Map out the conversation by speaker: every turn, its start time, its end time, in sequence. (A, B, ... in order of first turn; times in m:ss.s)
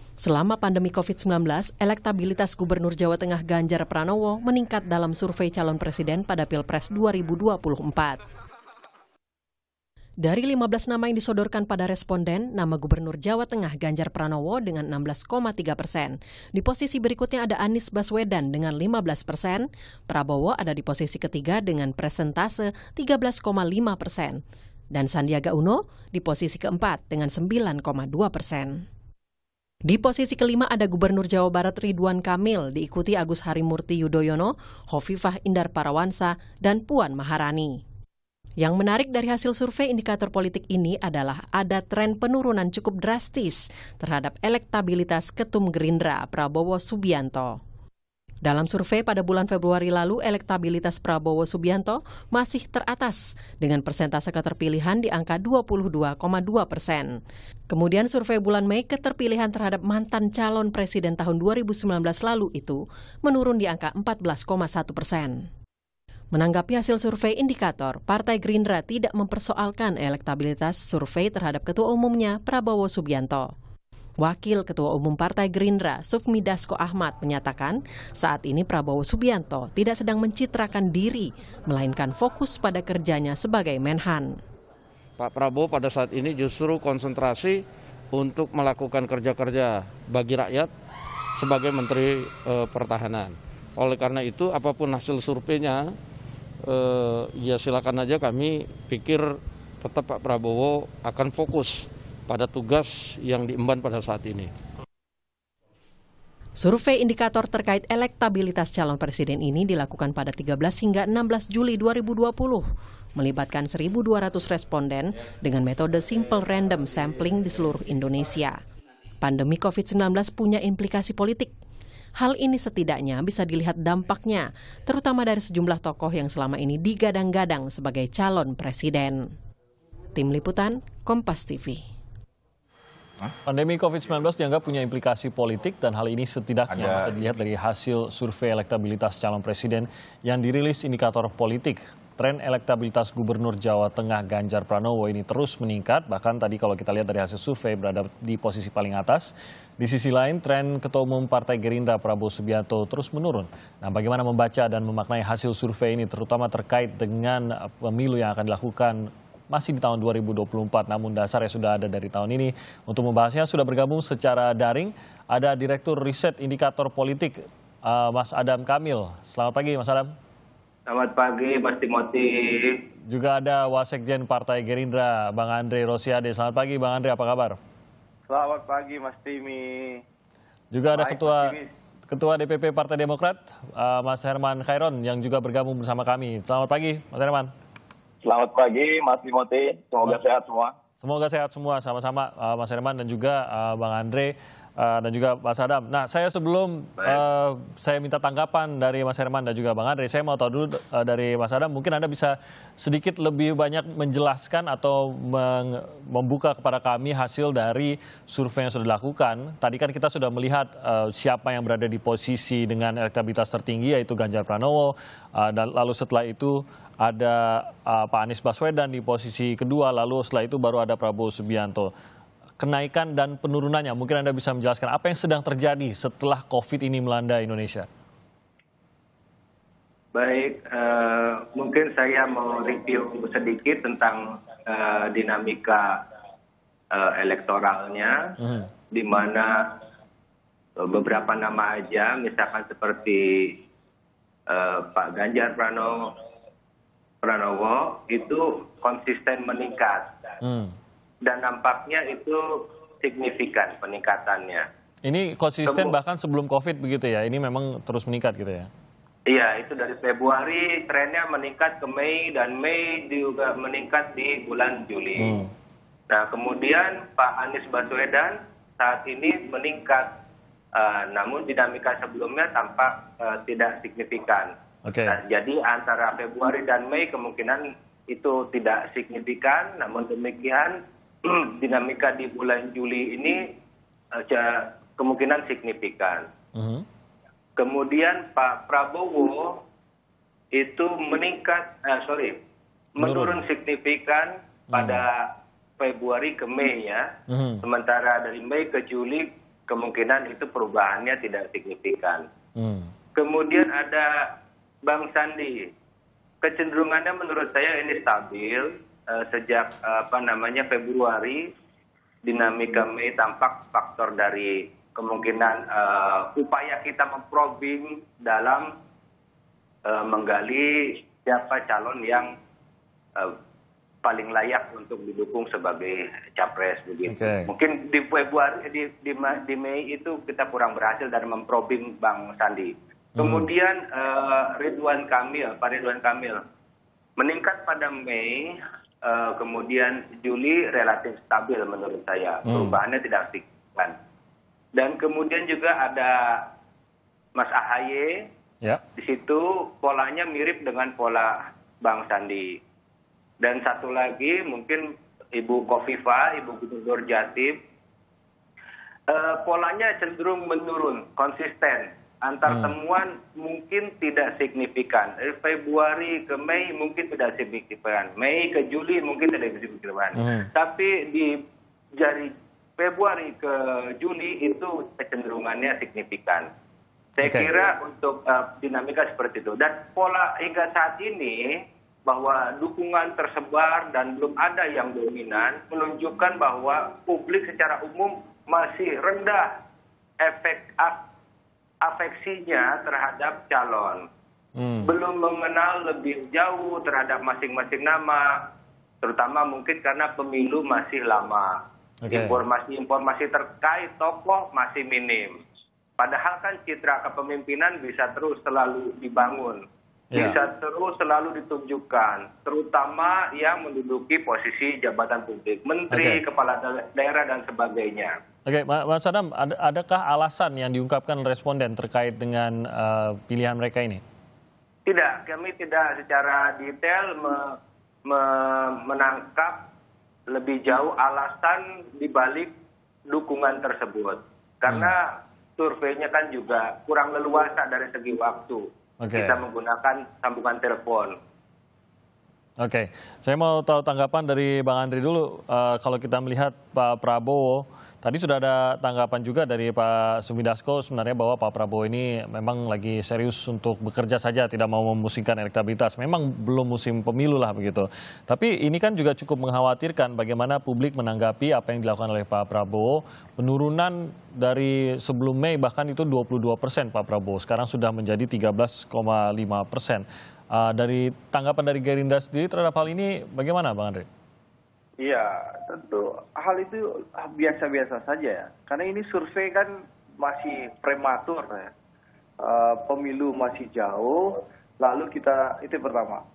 0:00.2-0:08.2 A
0:10.2-0:24.4 A
0:24.9-0:28.8 A
0:29.9-0:37.8 A
0:38.6-0:47.6 A
0:48.4-0:57.1 A
0:57.7-1:05.4 A
1:06.3-1:13.5 A
1:14.2-1:24.4 A
1:25.2-1:30.7 B
1:31.4-1:35.9 B
1:36.7-1:39.3 B
1:39.8-1:44.5 B
1:46.6-1:58.6 A
1:59.2-2:01.5 A
2:02.2-2:09.2 A
2:10.1-2:11.8 A
2:13.4-2:50.1 C
2:50.9-2:52.8 D
2:53.1-2:57.6 C
2:58.3-3:00.0 E
3:00.7-3:01.5 C
3:00.9-3:01.7 E
3:02.1-3:07.5 C
3:08.2-3:10.7 F
3:11.0-3:41.9 C
3:42.6-3:47.9 C
3:50.1-3:56.0 D
3:56.9-3:58.4 D
3:58.9-3:59.7 D
4:00.8-4:03.6 D
4:04.5-4:06.1 D
4:07.2-4:10.1 D
4:10.4-4:10.7 C
4:11.2-4:14.7 D
4:15.0-4:18.7 C
4:15.6-4:15.9 D
4:19.3-4:25.4 D
4:25.2-4:25.5 C
4:26.1-4:30.1 D
4:30.8-4:34.5 D
4:34.8-4:35.2 C
4:35.0-4:43.4 D
4:44.2-4:46.3 D
4:46.5-4:46.8 C
4:47.6-4:49.6 D
4:50.5-4:52.4 D
4:53.0-4:57.1 D
4:53.0-4:53.4 C
4:54.7-4:55.0 C
4:57.3-4:57.6 C
4:57.6-5:02.2 D
5:02.6-5:02.9 C
5:03.2-5:04.1 D
5:04.8-5:05.7 D
5:06.4-5:11.5 D
5:12.2-5:18.7 D
5:19.9-5:22.3 D
5:24.0-5:36.4 D
5:27.0-5:27.5 C
5:33.2-5:33.5 C
5:37.2-5:44.0 D
5:42.5-5:42.8 C
5:44.8-5:46.5 D
5:47.4-5:48.2 D
5:49.0-5:52.6 D
5:53.4-5:57.6 D
5:59.1-6:11.3 D
6:02.5-6:02.7 C
6:10.1-6:10.5 C
6:12.0-6:16.5 D
6:17.2-6:21.4 D
6:17.2-6:17.5 C
6:22.0-6:29.6 D
6:30.2-6:31.0 D
6:31.8-6:34.1 D
6:34.6-6:34.9 C
6:34.8-6:38.5 D
6:39.0-6:41.5 D
6:42.0-6:42.4 C
6:42.1-6:45.4 D
6:46.0-6:58.1 D
6:50.1-6:50.4 C
6:55.9-6:56.2 C
6:58.4-7:04.0 C
7:04.8-7:07.6 D
7:08.1-7:09.7 D
7:10.3-7:12.5 D
7:13.1-7:21.2 D
7:19.0-7:19.4 C
7:22.6-7:54.1 C
7:55.0-8:01.7 E
8:02.4-8:04.2 E
8:04.8-8:06.2 E